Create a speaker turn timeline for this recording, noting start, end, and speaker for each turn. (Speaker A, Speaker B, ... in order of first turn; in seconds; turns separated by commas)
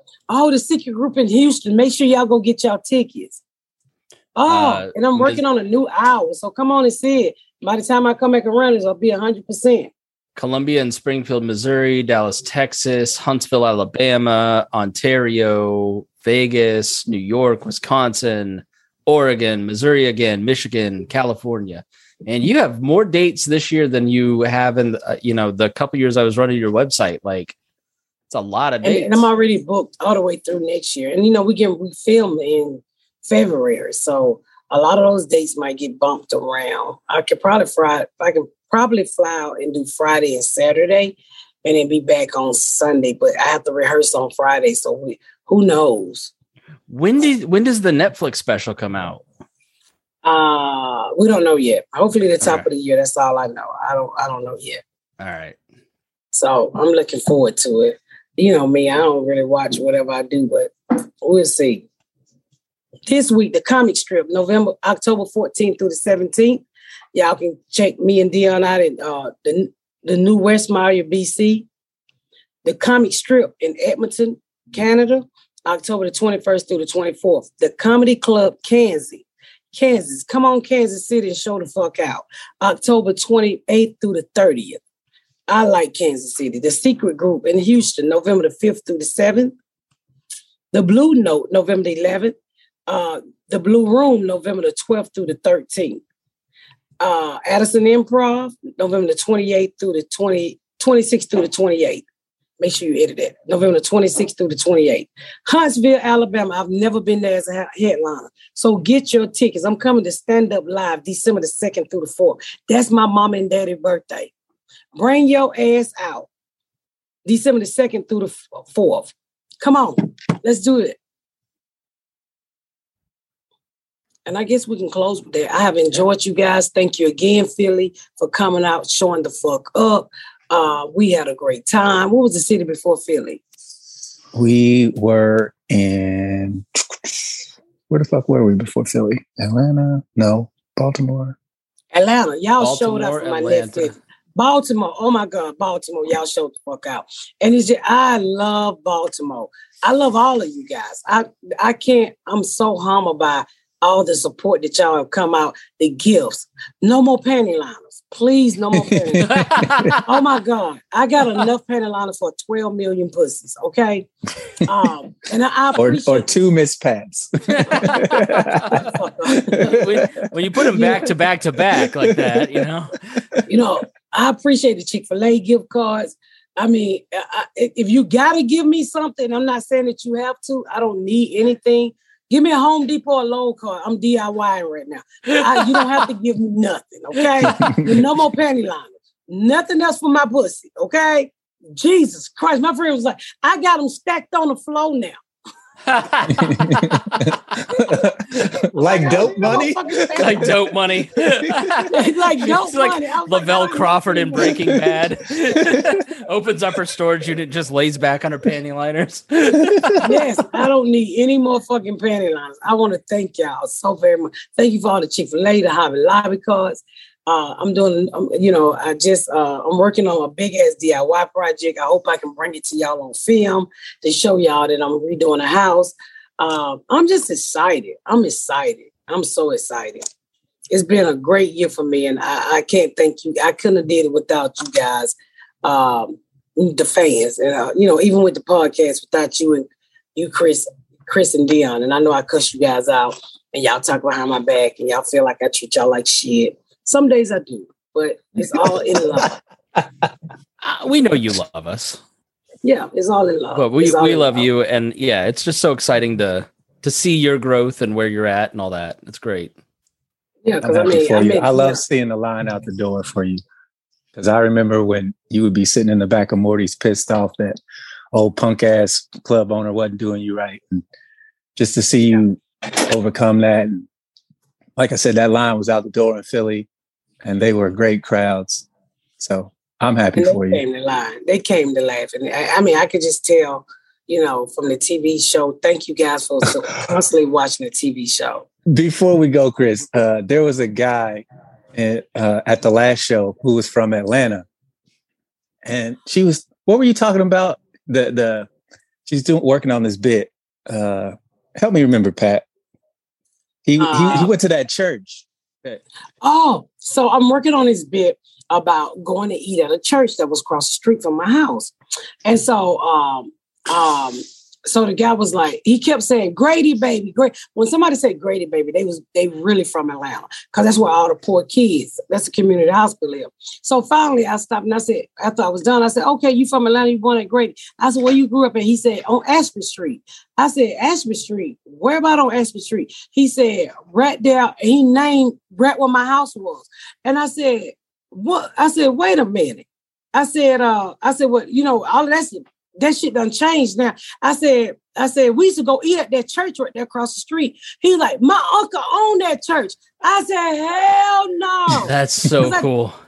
Speaker A: 0.3-3.4, Speaker A: 4.3-9.9, Speaker B: 4.5-5.4, Speaker B: 10.3-27.6, Speaker B: 28.3-29.2, Speaker A: 28.8-46.3, Speaker B: 46.9-49.2, Speaker A: 50.2-54.8, Speaker B: 52.4-52.7, Speaker B: 55.2-55.6, Speaker A: 56.3-61.9, Speaker A: 63.1-71.7, Speaker A: 72.6-84.8, Speaker A: 85.5-89.5, Speaker A: 90.7-92.3, Speaker A: 92.9-96.0, Speaker A: 97.0-102.0, Speaker A: 102.6-114.3, Speaker A: 114.9-116.3, Speaker A: 117.2-121.0, Speaker A: 124.2-133.4, Speaker C: 134.3-141.3, Speaker A: 141.9-159.4, Speaker B: 142.6-143.9, Speaker C: 158.7-159.9, Speaker B: 159.2-160.1, Speaker A: 160.0-166.3, Speaker C: 165.8-168.8, Speaker B: 167.5-168.8, Speaker A: 168.7-169.8, Speaker C: 169.4-171.1, Speaker B: 169.6-173.3, Speaker C: 171.8-172.5, Speaker A: 173.5-195.2, Speaker B: 185.3-186.1, Speaker B: 187.4-188.0, Speaker C: 187.4-187.9, Speaker B: 195.8-197.4, Speaker C: 196.3-200.5, Speaker A: 198.6-200.5, Speaker B: 200.2-210.1, Speaker C: 201.4-201.8, Speaker A: 201.9-204.6, Speaker C: 204.5-205.0, Speaker C: 205.6-205.9, Speaker A: 210.0-230.0, Speaker A: 230.7-249.3, Speaker C: 248.5-250.1, Speaker B: 250.6-252.0, Speaker A: 252.6-254.5, Speaker B: 253.5-259.5, Speaker A: 260.4-261.8, Speaker C: 260.6-263.4, Speaker C: 264.1-267.6, Speaker C: 268.1-270.8, Speaker C: 271.6-273.9, Speaker C: 274.8-276.7, Speaker C: 277.2-278.6, Speaker C: 279.2-280.6, Speaker A: 280.1-288.4, Speaker C: 288.7-294.4, Speaker C: 295.6-298.5, Speaker C: 299.1-302.4, Speaker C: 303.6-305.2, Speaker A: 303.8-304.3, Speaker A: 306.2-311.7, Speaker A: 312.2-352.6, Speaker B: 351.8-353.0